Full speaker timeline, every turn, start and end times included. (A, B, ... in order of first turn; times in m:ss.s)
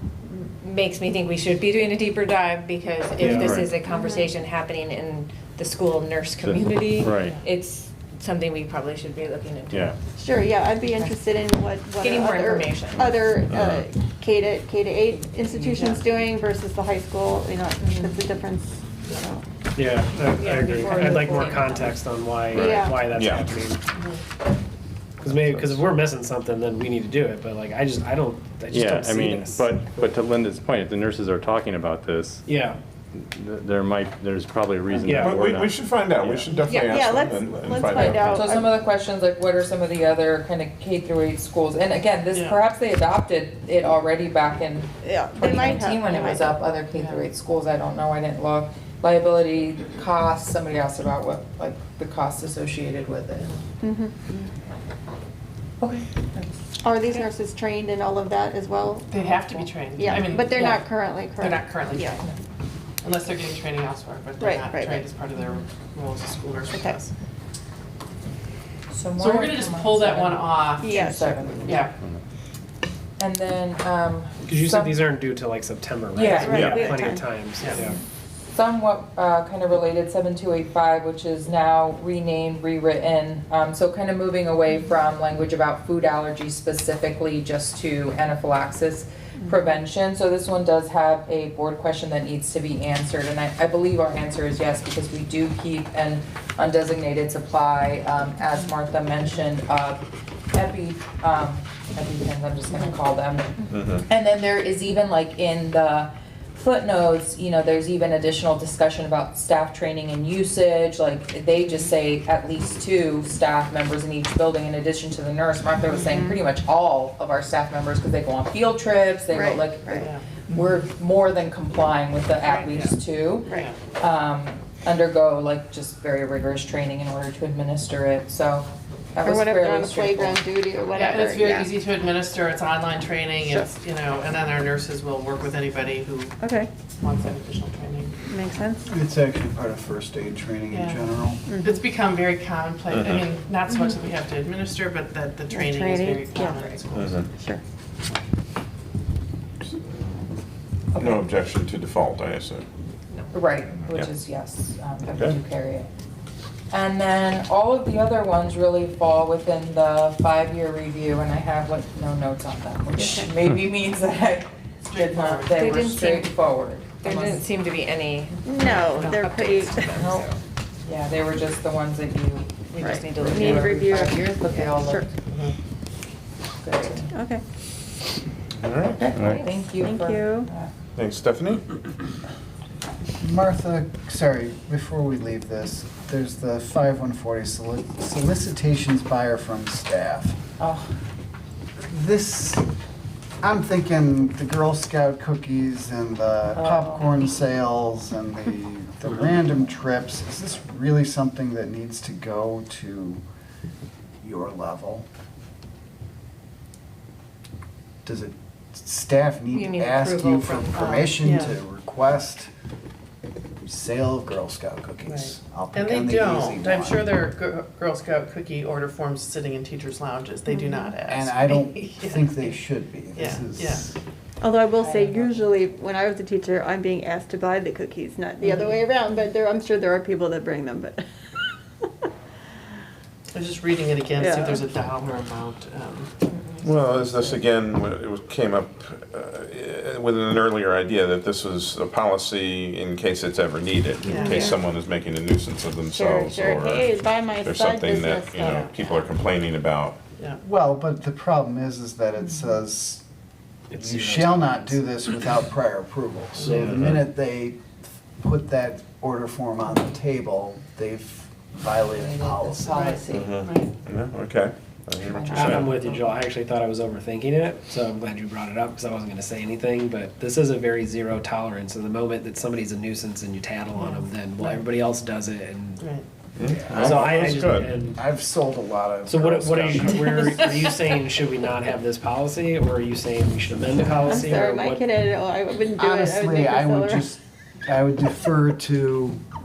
0:00.3-0:10.0 A
0:03.9-0:04.3 B
0:06.4-0:07.4 C
0:09.7-0:10.0 C
0:10.2-0:19.4 B
0:12.0-0:13.4 A
0:13.5-0:13.8 D
0:17.8-0:18.1 A
0:19.8-0:23.8 E
0:20.4-0:22.0 A
0:20.8-0:21.6 B
0:22.5-0:23.1 B
0:22.6-0:23.6 D
0:25.2-0:25.8 D
0:25.2-0:29.7 E
0:28.7-0:32.4 C
0:32.5-0:32.8 E
0:33.2-0:36.5 C
0:35.1-0:35.4 E
0:35.2-0:38.4 D
0:36.7-0:37.1 A
0:36.8-0:38.7 B
0:38.1-0:53.5 F
0:42.3-0:42.6 G
0:45.0-0:46.6 B
0:46.9-0:47.2 G
0:53.8-0:54.5 B
0:55.8-0:56.5 F
0:56.8-1:02.2 B
0:59.1-1:02.2 G
0:59.2-1:00.8 F
1:03.0-1:07.1 G
1:04.4-1:05.0 B
1:06.7-1:07.0 B
1:08.9-1:11.9 F
1:09.2-1:11.0 G
1:10.8-1:11.7 B
1:11.7-1:12.0 G
1:13.2-1:15.0 F
1:14.5-1:18.0 E
1:16.1-1:16.9 F
1:16.2-1:17.2 B
1:16.5-1:17.0 D
1:16.5-1:16.8 A
1:18.5-2:10.4 F
1:43.7-1:44.0 D
1:56.0-1:56.4 B
1:59.3-2:00.1 B
2:02.4-2:03.0 G
2:09.2-2:11.7 B
2:11.0-2:16.3 G
2:13.4-2:13.7 B
2:16.4-2:16.7 B
2:17.0-2:18.1 G
2:18.3-2:18.9 B
2:18.9-2:21.5 H
2:20.7-2:21.0 G
2:21.5-2:21.8 B
2:21.6-2:27.2 G
2:22.9-2:23.2 D
2:25.5-2:26.8 B
2:27.0-2:27.3 D
2:27.3-2:27.6 B
2:29.6-2:30.0 D
2:31.0-2:31.3 F
2:31.0-2:32.6 D
2:33.3-2:35.9 F
2:33.8-2:34.1 D
2:35.1-2:35.4 D
2:36.7-2:47.4 F
2:44.9-2:45.6 G
2:45.5-2:46.3 A
2:47.0-2:50.4 A
2:48.4-2:50.0 B
2:49.9-2:50.3 F
2:50.8-2:55.2 F
2:52.7-2:53.8 A
2:52.8-2:55.1 B
2:56.6-2:57.1 F
2:57.1-2:57.4 B
2:58.6-2:59.4 D
2:59.0-3:00.7 F
2:59.1-3:00.5 B
3:01.0-3:01.6 D
3:03.2-3:10.4 H
3:10.6-3:10.9 F
3:11.9-3:12.6 H
3:13.4-3:23.2 H
3:16.6-3:17.1 F
3:24.2-3:25.1 H
3:28.0-3:32.5 H
3:29.5-3:31.2 A
3:31.2-3:31.6 G
3:33.6-3:37.1 H
3:35.1-3:42.6 G
3:41.1-3:44.0 H
3:43.2-3:43.9 G
3:44.4-3:51.0 B
3:44.8-3:45.4 F
3:53.3-3:56.2 G
3:54.2-3:54.6 B
3:56.6-4:06.9 D
4:04.0-4:04.4 G
4:04.1-4:04.6 B
4:05.9-4:09.1 B
4:07.4-4:10.0 D
4:08.4-4:08.8 G
4:10.4-4:13.0 H
4:13.7-4:14.8 E
4:13.7-4:17.6 H
4:16.4-4:16.8 E
4:16.5-4:17.0 D
4:18.2-4:22.8 H
4:21.9-4:23.7 F
4:22.7-4:23.7 G
4:23.1-4:25.8 D
4:25.0-4:25.8 F
4:25.3-4:35.9 E
4:33.8-4:34.0 G
4:35.8-4:36.1 G
4:36.4-4:37.7 D
4:36.7-4:37.1 H
4:36.8-4:38.0 E
4:38.0-4:40.2 H
4:39.1-4:44.9 E
4:44.0-4:47.1 B
4:45.8-4:49.2 H